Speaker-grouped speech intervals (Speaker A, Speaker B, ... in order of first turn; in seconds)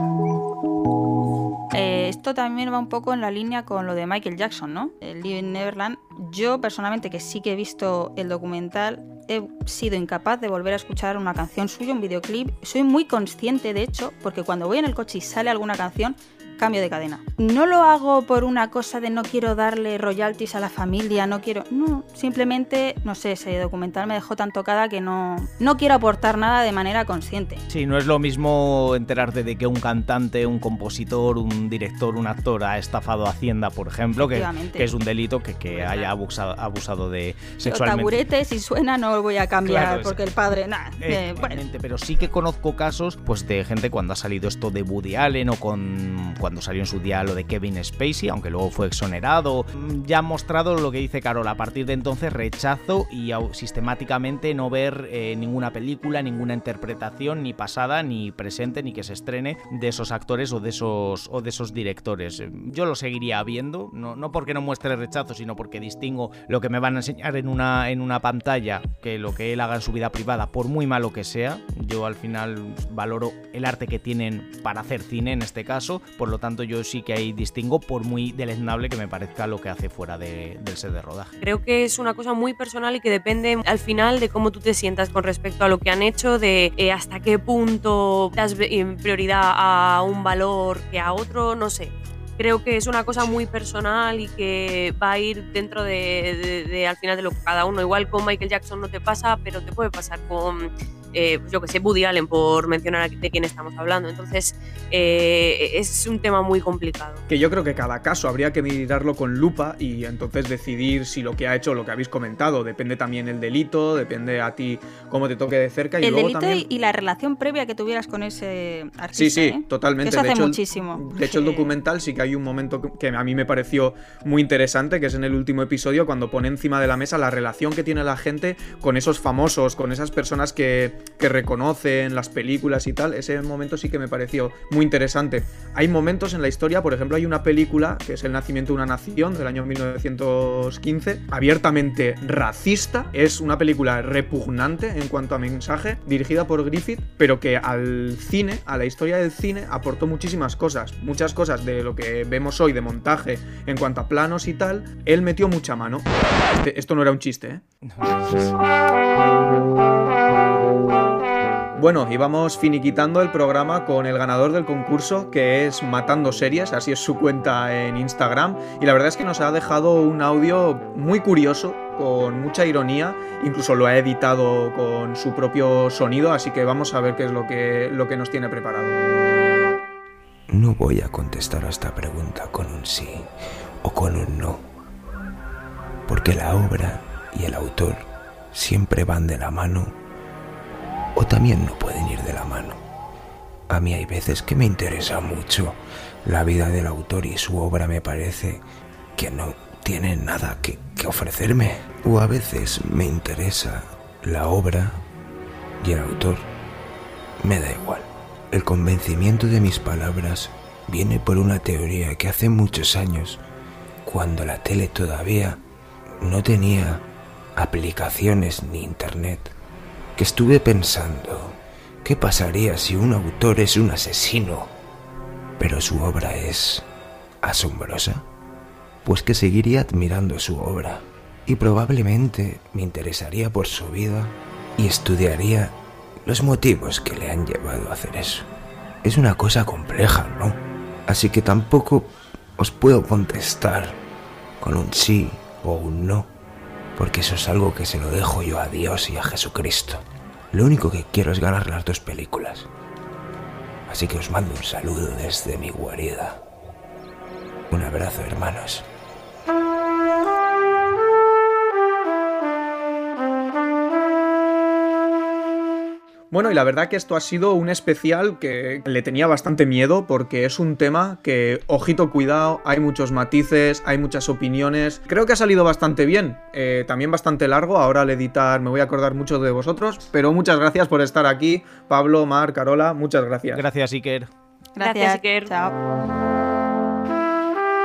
Speaker A: 1.7-27.6, 34.2-34.9, 37.6-41.6, 116.0-121.7, 284.8-285.8
Speaker B: 27.7-38.2, 39.6-40.1, 41.0-81.3, 157.8-158.5, 283.5-284.3
Speaker C: 35.7-36.1, 81.4-107.2, 284.8-285.5
Speaker D: 107.3-116.6, 119.1-157.6, 161.8-178.9, 266.3-283.6
Speaker E: 180.5-183.3, 183.8-184.7, 186.1-189.9, 191.2-192.8, 193.7-198.6, 199.2-205.0, 205.8-206.5, 207.4-213.4, 214.0-215.6, 216.2-217.0, 217.6-219.5, 220.2-224.7, 225.6-226.8, 227.4-228.2, 229.0-238.5, 239.0-244.0, 244.6-246.3, 246.9-252.7, 253.9-256.4, 257.7-258.9